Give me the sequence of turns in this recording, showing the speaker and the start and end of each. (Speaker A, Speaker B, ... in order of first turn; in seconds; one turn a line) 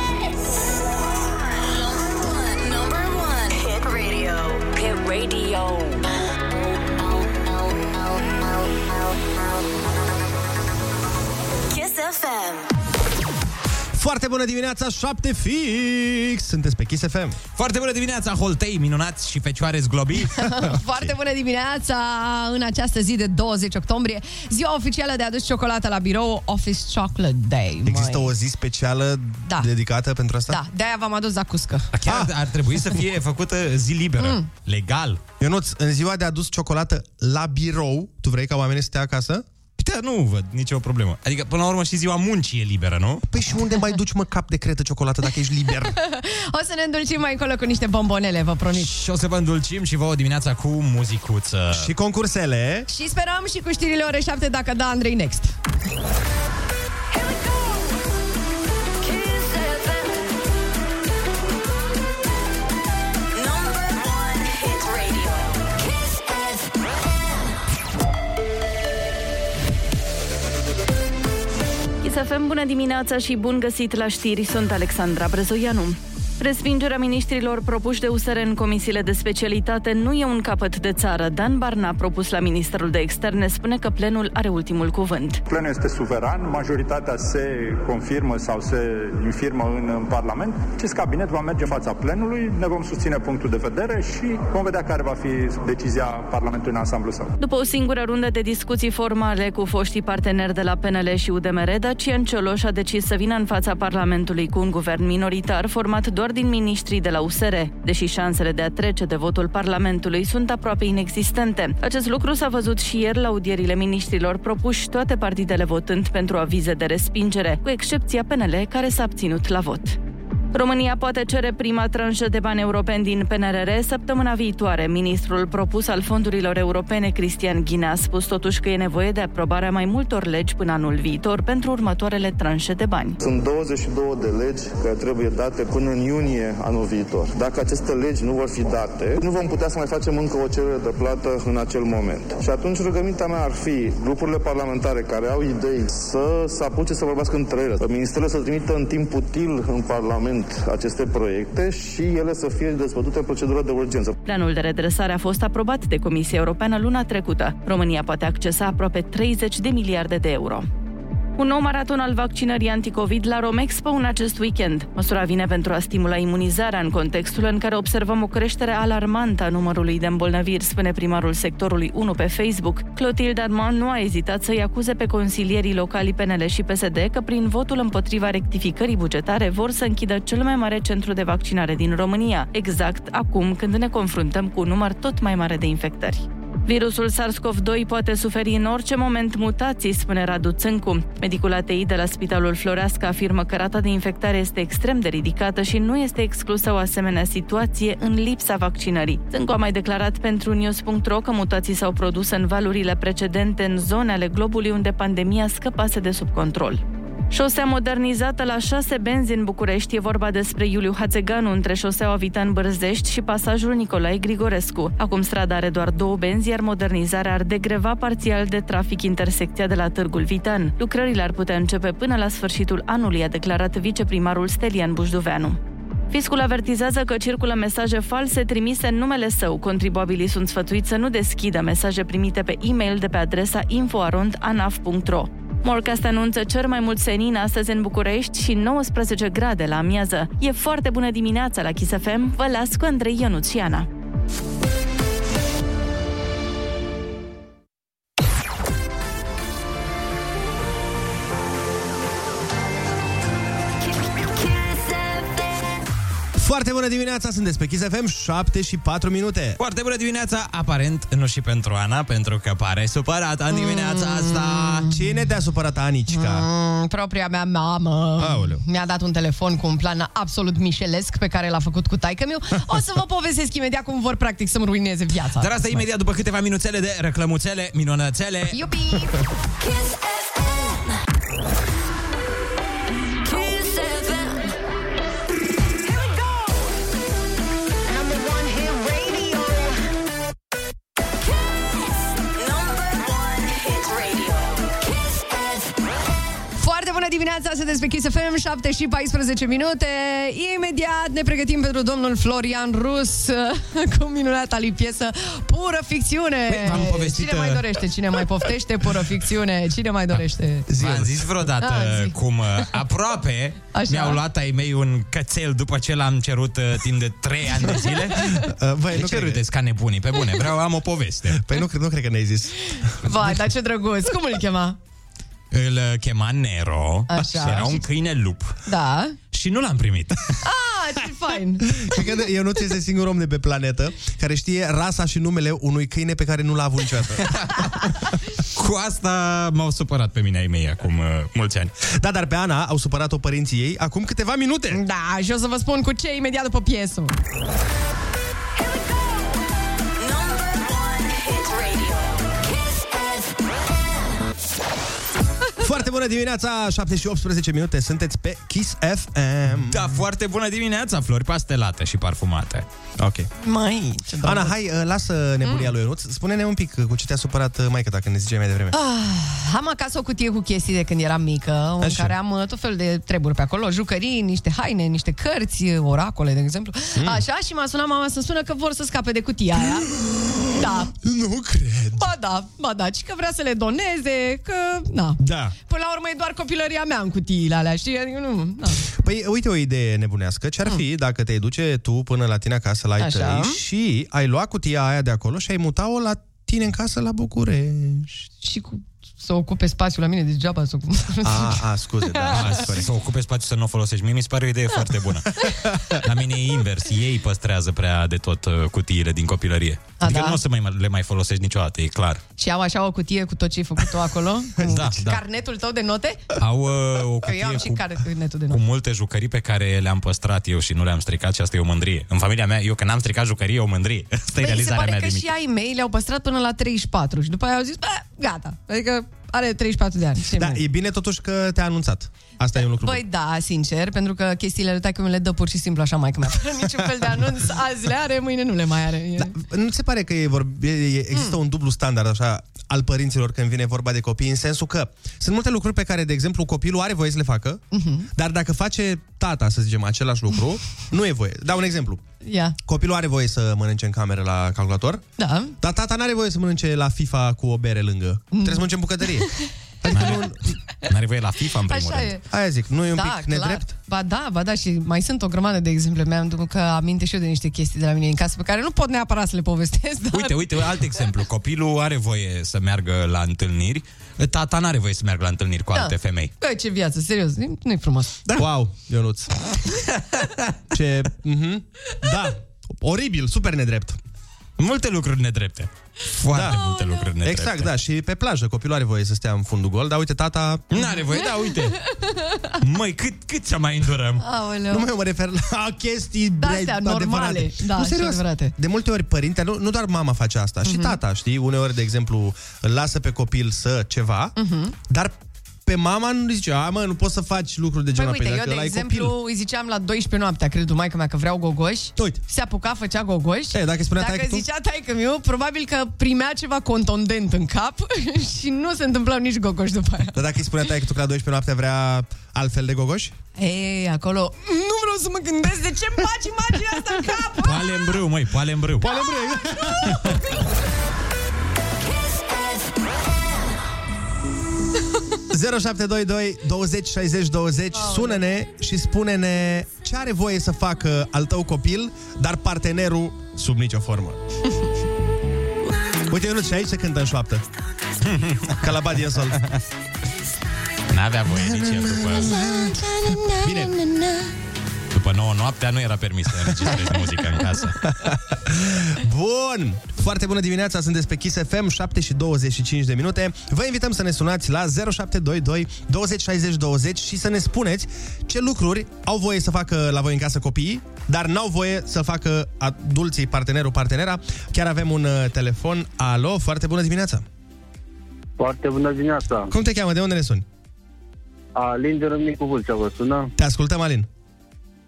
Speaker A: 1.2-6.0
Speaker A: 11.7-12.7
Speaker B: 13.9-17.4
Speaker C: 17.6-20.4
Speaker D: 20.3-28.3
Speaker B: 20.6-21.1
Speaker B: 27.9-30.6
Speaker D: 30.5-31.9
Speaker C: 31.9-35.2
Speaker B: 32.0-32.3
Speaker D: 34.2-34.5
Speaker B: 35.4-39.5
Speaker C: 39.8-43.2
Speaker B: 43.3-45.9
Speaker D: 46.0-48.9
Speaker C: 48.7-51.9
Speaker B: 51.7-52.9
Speaker D: 52.9-55.5
Speaker A: 57.1-57.9
Speaker A: 59.0-60.2
Speaker A: 63.3-67.2
Speaker E: 72.0-85.4
Speaker F: 85.5-97.3
Speaker E: 97.4-120.0
Speaker E: 120.5-133.2
Speaker G: 133.2-154.1
Speaker E: 154.2-160.7
Speaker E: 161.4-225.6
Speaker E: 226.1-243.9
Speaker A: 253.9-255.7
Speaker B: 256.4-259.6
Speaker C: 259.6-264.9
Speaker D: 263.5-264.8
Speaker B: 264.8-266.4
Speaker D: 266.1-275.5
Speaker B: 268.2-268.6
Speaker C: 275.4-278.6
Speaker D: 278.5-279.2
Speaker A: 279.6-280.9
Speaker A: 283.2-284.5
Speaker A: 287.8-289.8
Speaker A: 291.3-295.8
Speaker D: 296.6-310.7
Speaker C: 306.5-307.8
Speaker B: 310.7-311.3
Speaker C: 310.8-318.3
Speaker D: 311.6-312.1
Speaker D: 313.7-314.2
Speaker B: 318.1-319.4
Speaker C: 318.9-321.4
Speaker B: 321.3-322.7
Speaker D: 323.0-324.8
Speaker C: 325.5-328.6
Speaker D: 327.1-327.8
Speaker D: 328.6-329.1
Speaker C: 329.3-330.4
Speaker D: 330.4-332.0
Speaker B: 331.8-337.3
Speaker C: 337.2-337.6
Speaker C: 338.5-341.7
Speaker B: 341.9-344.8
Speaker D: 344.7-347.1
Speaker A: 348.6-349.4
Speaker A: 350.0-353.9
Speaker B: 355.6-359.9
Speaker C: 359.7-362.6
Speaker B: 363.0-363.3
Speaker D: 363.4-364.5
Speaker B: 364.2-368.8
Speaker D: 368.7-379.9
Speaker B: 371.8-372.1
Speaker B: 376.9-377.2
Speaker D: 380.5-380.9
Speaker B: 380.9-382.1
Speaker D: 382.0-388.9
Speaker B: 385.2-385.5
Speaker B: 388.9-398.3
Speaker D: 393.0-393.6
Speaker D: 398.4-401.6
Speaker B: 401.2-402.9
Speaker C: 402.3-412.2
Speaker D: 410.0-410.4
Speaker D: 412.4-416.2
Speaker C: 414.6-415.2
Speaker C: 416.4-417.9
Speaker D: 417.2-418.6
Speaker C: 418.5-425.3
Speaker D: 424.4-430.6
Speaker B: 430.2-433.0
Speaker D: 432.8-439.3
Speaker B: 436.8-437.2
Speaker B: 439.2-452.0
Speaker D: 447.7-448.1
Speaker D: 452.2-452.6
Speaker B: 452.7-455.0
Speaker D: 455.2-455.6
Speaker B: 455.6-460.4
Speaker D: 458.3-459.3
Speaker C: 459.9-462.1
Speaker D: 461.7-462.2
Speaker B: 462.3-463.7
Speaker D: 462.9-470.5
Speaker C: 470.1-476.3
Speaker D: 475.7-478.2
Speaker B: 478.3-479.3
Speaker C: 480.1-480.4
Speaker B: 480.7-484.0
Speaker C: 484.6-487.7
Speaker B: 486.3-486.6
Speaker D: 486.4-487.0
Speaker B: 487.2-490.8
Speaker C: 490.7-491.8
Speaker D: 491.9-492.5
Speaker C: 492.6-494.2
Speaker D: 494.2-494.9
Speaker B: 494.7-504.4
Speaker D: 496.4-498.5
Speaker D: 500.6-501.0
Speaker D: 504.4-504.7
Speaker B: 504.9-509.1
Speaker D: 507.9-520.1
Speaker B: 513.5-514.4
Speaker B: 520.1-523.1
Speaker D: 523.4-527.9
Speaker C: 527.4-528.9
Speaker B: 528.8-530.1
Speaker D: 529.5-530.2
Speaker A: 532.0-532.6
Speaker B: 535.3-544.2
Speaker D: 537.9-538.1
Speaker B: 546.1-547.4
Speaker C: 548.0-548.6
Speaker B: 548.6-549.4
Speaker C: 550.9-552.5
Speaker B: 551.4-553.8
Speaker C: 554.9-557.8
Speaker B: 557.9-577.2
Speaker H: 578.4-579.5
Speaker B: 579.5-580.5
Speaker H: 581.5-583.3
Speaker B: 583.4-584.1